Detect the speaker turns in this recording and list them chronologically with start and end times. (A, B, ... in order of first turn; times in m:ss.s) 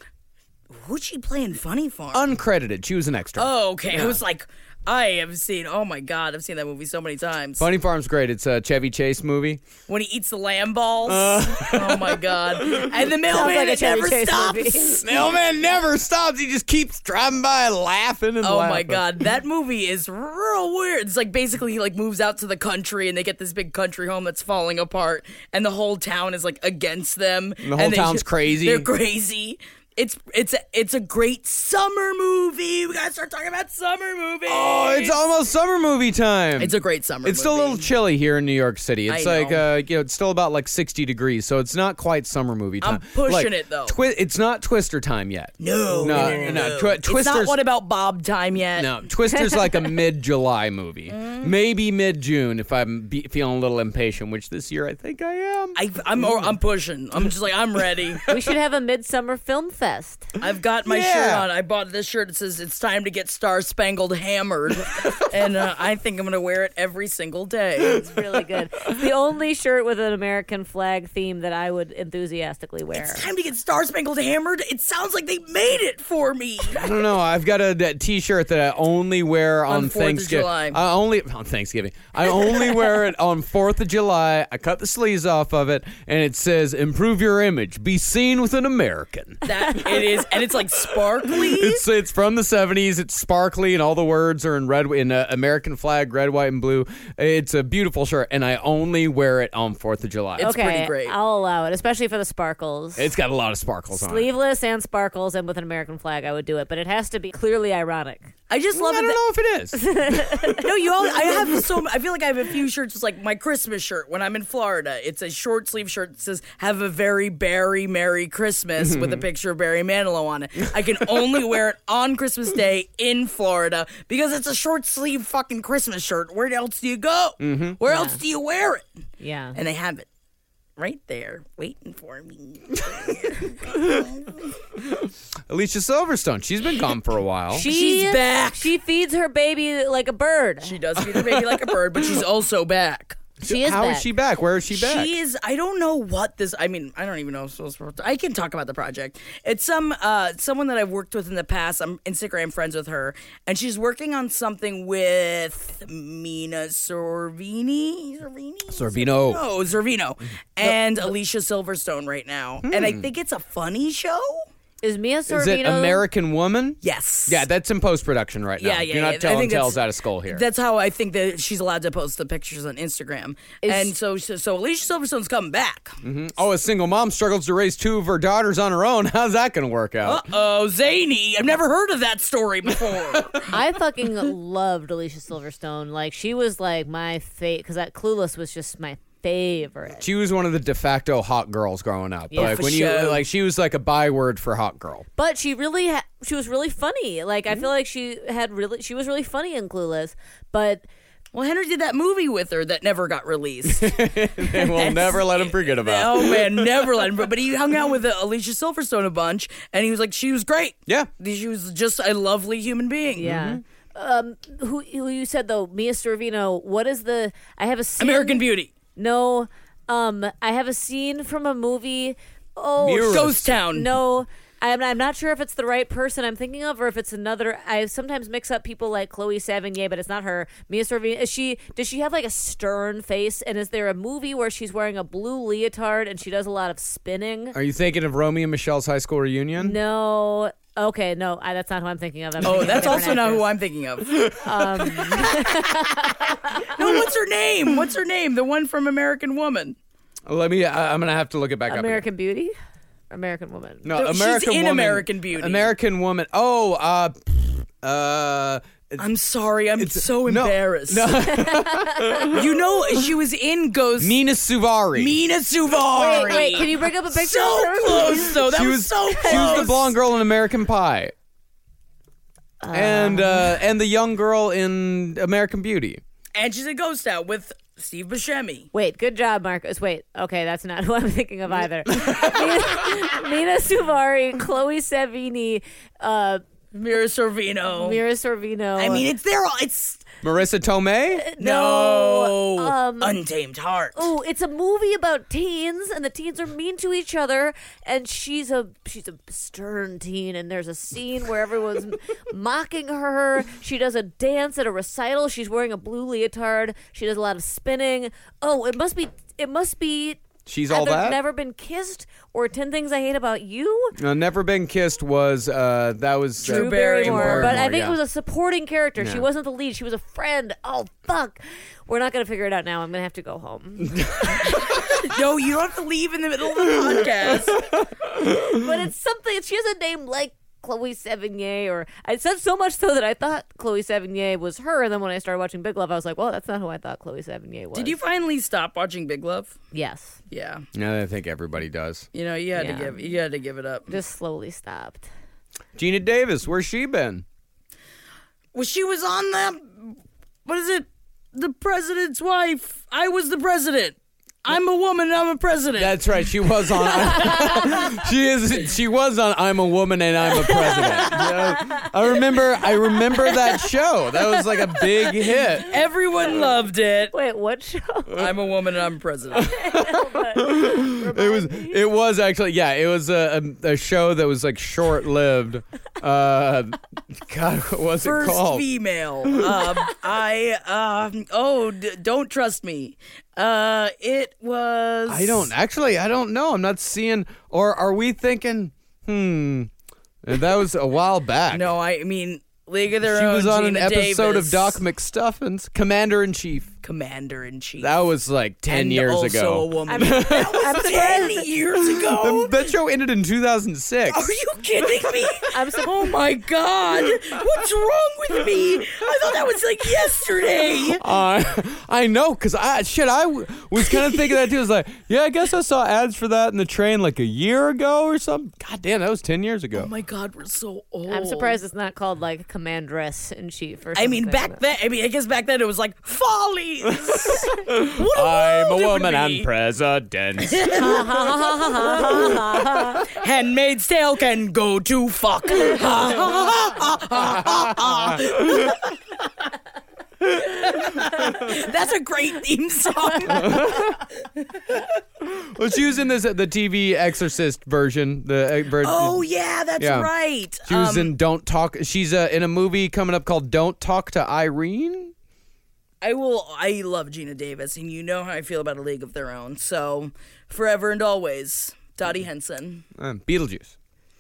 0:00.7-0:02.4 A
0:02.1-0:04.2 B
0:03.4-0:07.7 A
0:07.6-0:09.6 B
0:09.9-0:15.1 A
0:11.1-0:13.0 B
0:13.3-0:15.0 C
0:15.0-0:19.1 B
0:18.4-0:35.2 A
0:27.6-0:28.9 B
0:34.5-0:47.6 B
0:36.6-0:37.9 A
0:39.1-0:39.7 A
0:42.8-0:44.0 A
0:45.6-0:49.0 A
0:48.8-0:56.5 B
0:51.1-0:51.5 A
0:55.8-0:58.2 A
0:58.3-1:00.3 C
1:00.4-1:08.2 A
1:00.8-1:01.5 B
1:08.0-1:13.2 C
1:12.9-1:17.0 A
1:16.7-1:30.1 B
1:19.7-1:20.8 A
1:29.4-1:31.8 A
1:31.3-1:40.5 B
1:40.4-1:41.2 A
1:40.4-1:43.1 C
1:43.0-1:44.3 B
1:43.9-1:48.3 C
1:48.5-1:49.2 A
1:48.7-1:50.5 B
1:49.8-1:50.6 C
1:50.5-2:08.9 A
1:58.8-1:59.2 B
2:07.4-2:07.8 B
2:07.9-2:08.2 C
2:09.2-2:09.6 C
2:09.6-2:10.1 A
2:10.8-2:14.5 A
2:13.7-2:14.0 B
2:14.8-2:17.6 B
2:17.5-2:20.8 C
2:17.7-2:18.7 A
2:20.6-2:23.2 A
2:21.2-2:21.5 B
2:23.4-2:25.1 B
2:23.4-2:24.1 C
2:24.7-2:44.4 A
2:38.7-2:39.4 B
2:42.6-2:43.1 B
2:44.8-2:46.0 C
2:45.3-2:50.4 B
2:46.8-2:47.5 A
2:48.6-2:56.0 A
2:53.6-2:53.9 C
2:56.0-3:00.3 B
3:00.0-3:03.5 A
3:03.5-3:10.0 C
3:10.0-3:15.1 B
3:12.3-3:12.6 C
3:12.4-3:13.2 A
3:15.2-3:20.8 C
3:21.3-3:33.3 A
3:23.6-3:27.3 B
3:33.2-3:38.4 C
3:33.2-3:33.6 B
3:38.0-3:38.7 A
3:39.0-3:57.6 C
3:42.8-3:43.6 B
3:43.1-3:43.9 A
3:57.5-3:59.8 B
3:59.6-4:03.5 C
4:02.4-4:03.2 B
4:02.4-4:04.4 A
4:04.2-4:05.0 B
4:04.4-4:06.7 C
4:06.6-4:09.8 A
4:10.3-4:12.1 B
4:11.7-4:12.5 C
4:13.1-4:13.9 C
4:13.8-4:19.1 B
4:14.0-4:15.7 A
4:19.0-4:21.2 A
4:19.8-4:22.5 B
4:21.3-4:22.3 C
4:22.3-4:24.2 A
4:24.0-4:25.2 B
4:25.0-4:29.9 A
4:26.0-4:28.4 C
4:28.4-4:31.1 B
4:29.1-4:29.7 C
4:32.6-4:33.6 C
4:32.7-4:36.0 B
4:36.4-4:38.7 A
4:38.7-4:46.4 C
4:46.7-4:48.0 A
4:47.7-4:49.0 C
4:48.8-4:50.0 A
4:50.2-4:51.2 B
4:51.2-4:53.1 C
4:51.4-4:54.1 A
4:54.0-5:14.0 C
5:10.5-5:11.2 B
5:14.0-5:18.0 B
5:16.4-5:17.6 A
5:16.5-5:24.9 C
5:19.0-5:19.3 B
5:24.0-5:24.4 B
5:24.9-5:27.7 A
5:28.4-5:38.0 C
5:37.7-5:39.6 A
5:39.7-5:40.2 C
5:40.3-5:40.7 A
5:40.7-5:42.1 B
5:42.1-5:43.9 A
5:42.6-5:43.2 C
5:43.9-5:45.1 C
5:45.8-5:47.2 B
5:48.5-5:56.0 A
5:55.8-6:05.8 B
5:56.9-5:57.6 A
5:57.2-5:57.6 C
6:00.4-6:01.9 C
6:04.8-6:05.1 C
6:05.7-6:07.1 A
6:07.1-6:08.2 C
6:08.2-6:09.5 A
6:09.3-6:18.6 B
6:09.6-6:11.8 C
6:18.0-6:25.5 A
6:25.1-6:29.7 B
6:30.2-6:31.7 B
6:31.5-6:34.8 A
6:33.0-6:36.7 B
6:36.8-6:38.0 A
6:37.8-6:40.9 B
6:38.7-6:42.7 A
6:39.9-6:41.5 C
6:41.8-6:44.3 B
6:44.1-6:51.0 A
6:45.5-6:46.0 C
6:51.0-6:59.9 B
6:53.9-6:54.4 A
6:59.7-7:01.6 A
7:01.1-7:04.6 C
7:04.0-7:09.5 A
7:07.1-7:10.9 B
7:10.5-7:11.0 A
7:10.7-7:13.1 C
7:11.9-7:12.3 A
7:13.1-7:19.0 A
7:17.8-7:18.7 B
7:20.4-7:23.9 A
7:23.3-7:24.0 B
7:25.2-7:29.2 B
7:28.8-7:31.1 A
7:29.8-7:30.1 B
7:30.6-7:35.1 B
7:36.0-7:42.8 A
7:43.0-7:43.7 B